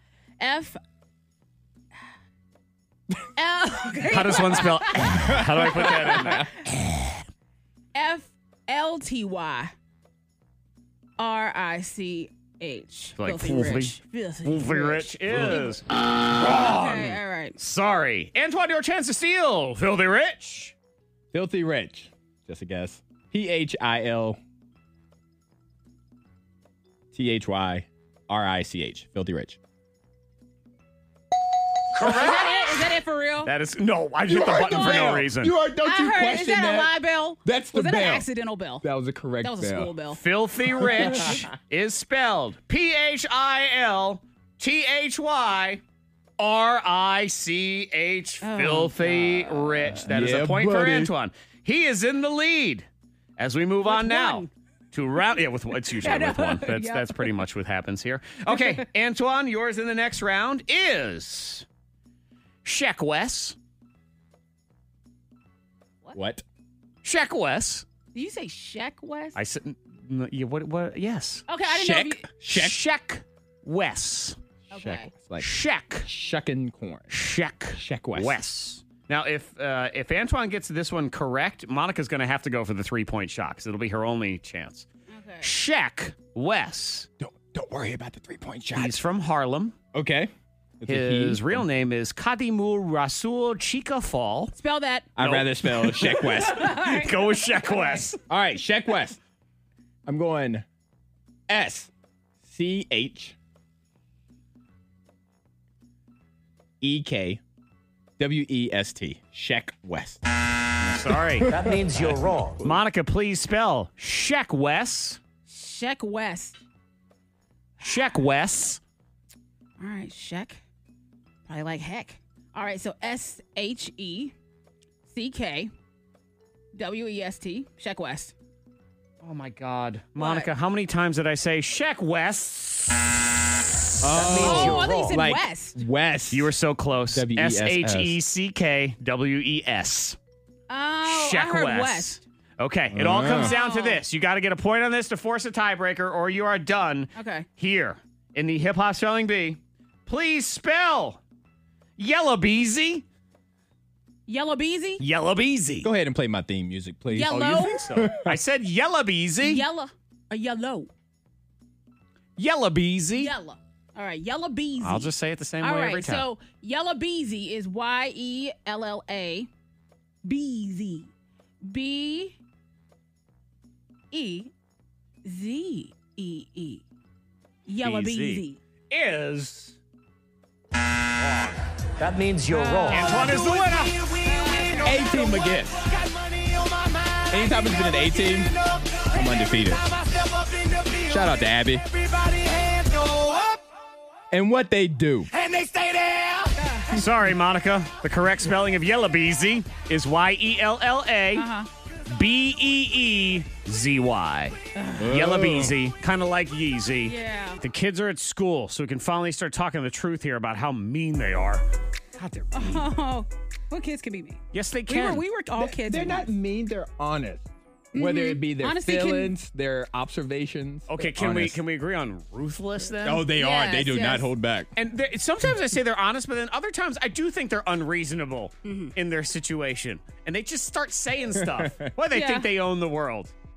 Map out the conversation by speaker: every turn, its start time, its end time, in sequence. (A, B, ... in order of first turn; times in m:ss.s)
0:00.4-0:00.8 A
0:03.4-0:06.4 A
0:04.1-0:07.2 B
0:05.2-0:06.5 C
0:07.9-0:09.7 A
0:11.2-0:15.8 A
0:13.2-0:20.7 B
0:16.4-0:17.6 A
0:21.3-0:24.4 C
0:27.1-0:29.6 C
0:31.9-0:32.8 B
0:32.0-0:33.5 A
0:33.4-0:35.5 B
0:34.3-0:38.3 C
0:34.5-0:35.2 A
0:35.8-0:38.8 A
0:38.8-0:39.9 C
0:39.4-0:40.2 A
0:40.1-0:45.8 B
0:40.7-0:41.5 C
0:46.4-0:52.8 B
0:48.4-0:49.9 A
0:50.0-0:51.1 C
0:53.4-1:01.6 B
0:53.8-0:54.5 A
0:55.8-0:57.3 A
0:58.5-0:58.8 A
1:02.6-1:03.6 B
1:06.1-1:06.4 C
1:07.0-1:07.8 B
1:08.1-1:09.4 A
1:09.3-1:11.5 B
1:11.5-1:12.3 A
1:11.6-1:12.8 C
1:12.5-1:14.4 B
1:14.7-1:15.1 A
1:14.7-1:15.5 C
1:15.4-1:16.1 B
1:16.0-1:17.1 C
1:17.1-1:24.8 B
1:17.7-1:18.4 C
1:25.1-1:25.5 A
1:25.4-1:27.1 B
1:27.2-1:29.0 C
1:28.7-1:29.7 B
1:29.9-1:31.6 C
1:30.9-1:34.5 B
1:34.5-1:35.1 A
1:35.2-1:36.8 C
1:35.2-1:38.2 B
1:36.0-1:38.1 A
1:38.3-1:39.2 C
1:40.0-1:40.6 C
1:41.5-1:41.9 C
1:42.4-1:43.4 C
1:46.8-1:47.4 C
1:48.2-1:50.2 C
1:50.8-1:51.6 B
1:51.0-1:52.8 C
1:51.5-1:52.6 D
1:52.6-1:55.2 B
1:55.5-1:56.6 A
1:57.8-1:58.8 B
1:59.8-2:00.6 A
2:01.5-2:04.3 A
2:05.1-2:05.7 A
2:06.7-2:08.3 A
2:09.2-2:13.3 B
2:10.2-2:10.5 A
2:14.0-2:16.5 C
2:14.2-2:15.2 D
2:14.2-2:15.8 A
2:16.3-2:20.2 B
2:17.1-2:18.2 C
2:20.7-2:22.2 A
2:21.0-2:31.2 B
2:22.9-2:23.6 C
2:23.3-2:24.0 A
2:27.1-2:27.5 A
2:32.0-2:33.0 B
2:34.3-2:35.0 A
2:35.0-2:35.9 B
2:35.8-2:38.4 C
2:37.1-2:37.9 A
2:37.3-2:39.6 B
2:39.4-2:40.9 A
2:42.4-2:43.3 B
2:43.2-2:49.5 A
2:44.8-2:46.3 B
2:50.2-2:51.1 A
2:51.6-2:52.4 A
2:54.1-2:54.5 A
2:55.2-2:56.8 A
2:57.7-2:58.6 A
2:57.8-2:59.8 B
3:01.2-3:01.5 B
3:02.0-3:13.6 D
3:02.5-3:03.3 A
3:02.9-3:04.0 B
3:04.2-3:05.0 A
3:04.8-3:05.8 C
3:07.3-3:08.5 C
3:09.1-3:09.8 C
3:11.1-3:11.8 C
3:14.3-3:15.3 C
3:15.3-3:16.8 D
3:16.6-3:17.0 A
3:16.9-3:21.5 B
3:21.3-3:21.7 A
3:22.1-3:31.6 B
3:24.7-3:25.1 A
3:25.0-3:25.7 C
3:27.0-3:27.6 A
3:32.1-3:32.9 B
3:32.5-3:36.3 A
3:34.5-3:35.2 B
3:35.6-3:41.6 C
3:37.9-3:39.3 A
3:40.9-3:43.3 B
3:43.0-3:44.7 C
3:43.4-3:44.3 A
3:44.7-3:53.3 B
3:48.6-3:48.9 A
3:51.3-3:51.9 C
3:52.1-3:52.5 A